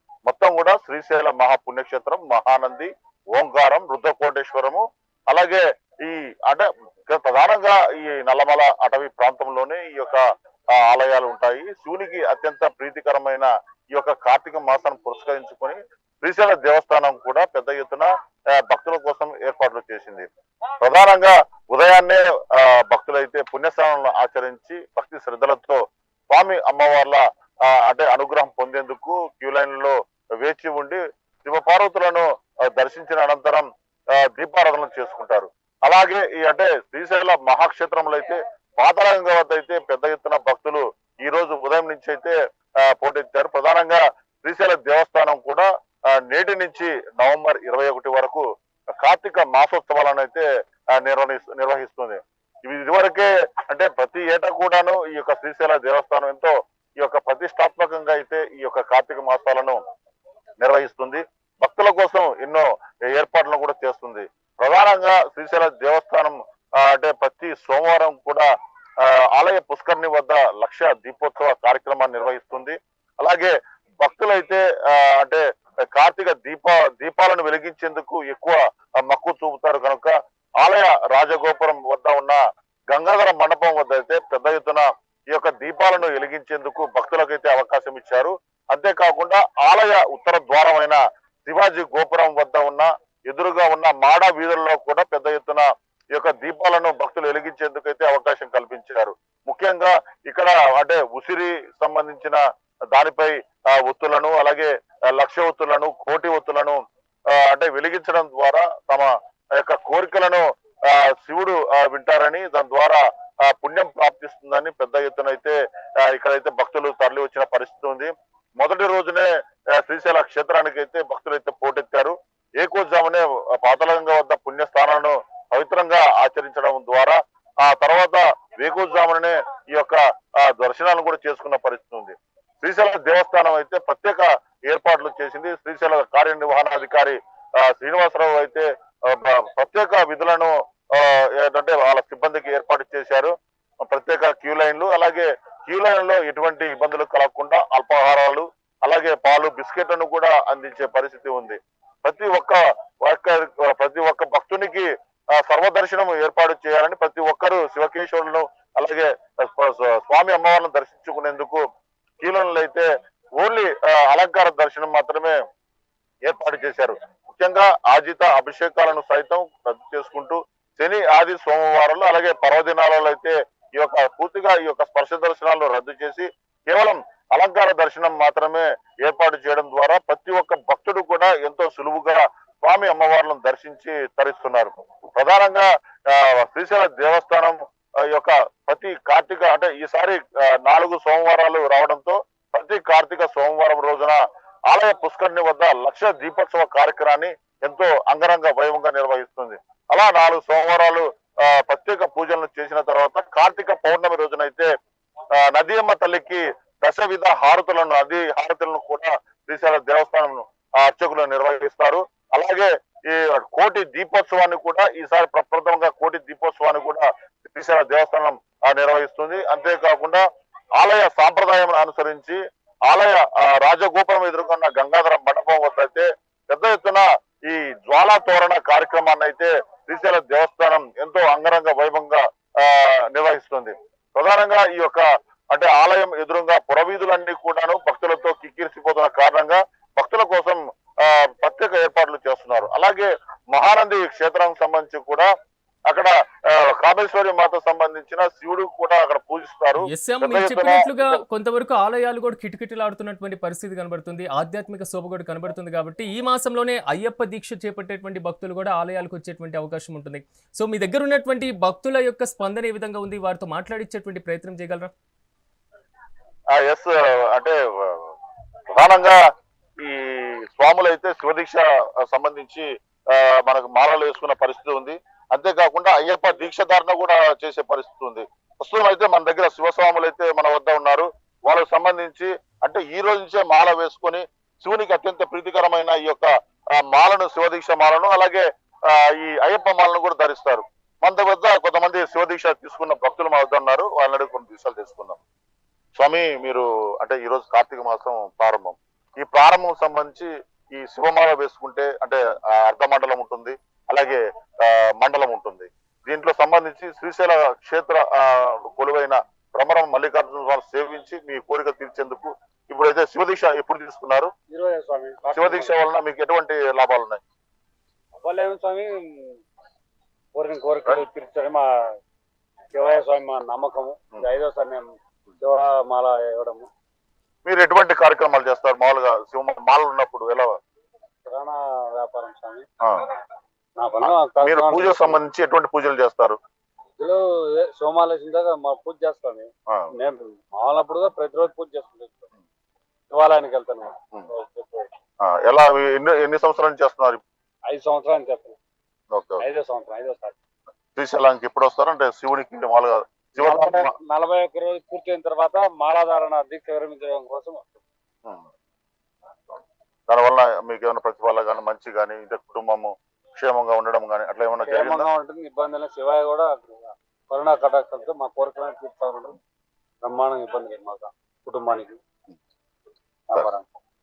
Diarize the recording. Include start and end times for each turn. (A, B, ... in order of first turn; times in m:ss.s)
0:00.3-0:10.2 A
0:10.8-0:20.3 A
0:20.8-0:25.8 A
0:26.3-0:33.7 A
0:34.2-0:48.4 A
0:49.0-0:59.8 A
1:00.6-1:08.5 A
1:09.0-1:15.4 A
1:15.9-1:22.4 A
1:22.9-1:35.6 A
1:36.2-1:42.4 A
1:42.9-1:46.8 A
1:47.3-2:23.3 A
2:23.9-2:41.6 A
2:42.2-2:45.4 A
2:46.3-3:07.6 A
3:08.1-3:14.2 A
3:14.7-3:24.7 A
3:25.4-3:40.2 A
3:40.8-3:42.4 A
3:42.9-4:05.3 A
4:05.9-4:11.2 A
4:09.9-4:24.9 B
4:26.5-4:28.1 A
4:28.8-4:29.2 A
4:29.8-4:55.2 A
4:56.0-5:14.3 A
5:14.5-5:15.7 C
5:15.3-5:17.2 A
5:18.2-5:19.3 C
5:20.4-5:21.6 C
5:22.7-5:24.9 C
5:25.4-5:26.7 C
5:27.4-5:30.5 A
5:31.3-5:32.7 C
5:32.8-5:33.1 A
5:33.8-5:35.2 C
5:34.0-5:36.4 A
5:37.0-5:42.3 C
5:43.1-5:44.9 C
5:45.3-5:47.2 A
5:47.7-5:48.6 C
5:49.1-5:49.4 A
5:49.4-5:50.4 C
5:51.0-5:53.9 A
5:53.4-5:57.7 C
6:00.1-6:05.1 A
6:04.6-6:09.4 C
6:10.0-6:12.0 C
6:13.3-6:13.7 C